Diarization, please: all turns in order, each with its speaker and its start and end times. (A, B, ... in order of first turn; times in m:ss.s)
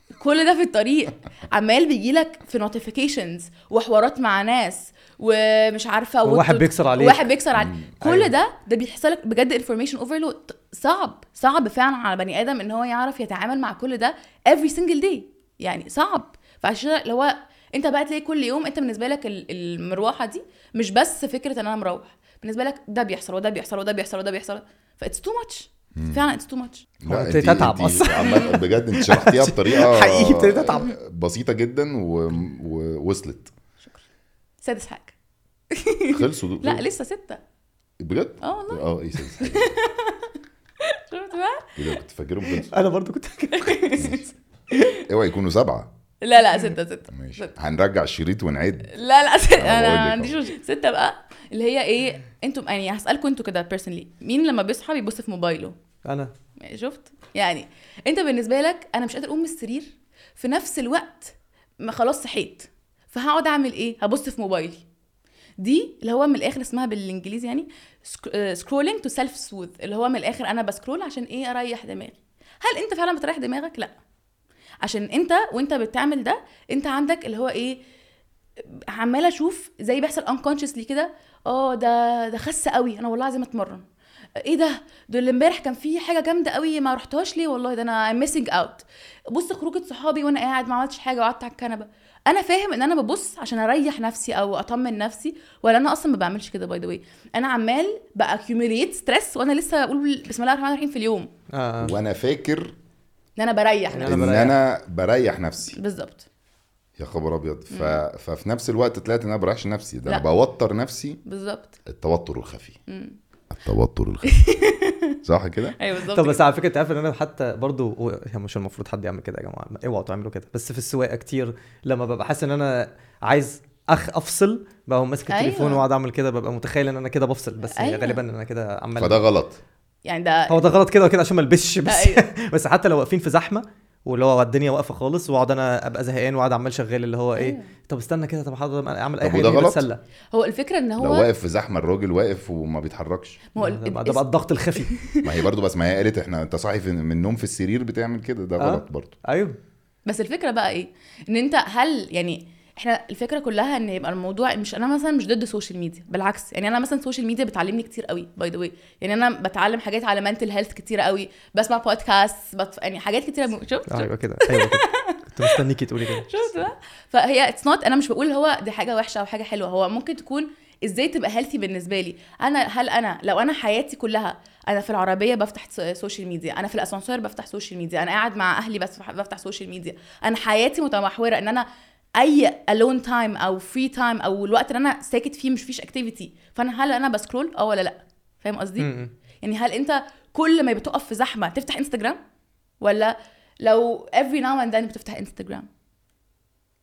0:00.1-0:26.9 A
0:06.3-0:07.3 B
0:07.6-0:07.9 C
0:08.0-0:08.3 B
0:26.0-0:26.2 C
0:27.0-0:33.5 C
0:27.1-0:30.9 B
0:28.2-0:28.5 A
0:34.6-0:35.2 A
0:35.7-0:37.4 A
0:36.1-0:36.8 C
0:38.0-0:39.8 C
0:38.4-0:40.3 A
0:40.8-0:42.0 A
0:41.8-0:42.7 C
0:42.7-0:44.2 B
0:43.5-0:44.2 A
0:45.0-0:45.9 C
0:46.2-0:47.5 A
0:47.1-0:48.9 C
0:48.9-0:55.8 A
0:49.6-0:50.4 C
0:56.0-0:56.3 B
0:56.6-1:04.8 A
1:05.6-1:13.9 A
1:14.8-1:17.8 A
1:18.7-1:23.8 A
1:24.4-1:41.3 A
1:41.5-1:42.0 B
1:41.8-1:42.8 C
1:43.4-1:44.2 A
1:43.9-1:44.6 B
1:44.0-1:45.8 C
1:45.8-1:46.3 A
1:47.0-1:51.2 C
1:47.7-1:48.0 A
1:51.2-1:51.8 A
1:51.9-1:52.8 C
1:52.9-1:53.2 A
1:53.5-1:54.7 C
1:54.2-1:55.2 A
1:55.2-1:55.8 C
1:55.8-1:56.4 A
1:56.1-2:09.3 B
2:05.3-2:05.8 A
2:07.7-2:08.2 A
2:09.0-2:09.6 C
2:10.0-2:10.7 A
2:10.5-2:20.0 B
2:11.9-2:12.3 A
2:17.4-2:17.7 A
2:19.2-2:19.8 C
2:20.3-2:21.3 A
2:21.0-2:23.4 C
2:23.6-2:24.3 A
2:23.6-2:24.9 B
2:24.8-2:25.3 A
2:25.2-2:29.1 C
2:28.6-2:29.6 B
2:30.1-2:45.6 A
2:43.9-2:46.5 B
2:46.2-3:08.9 A
3:08.8-3:09.1 B
3:09.4-3:12.2 A
3:12.8-3:15.7 A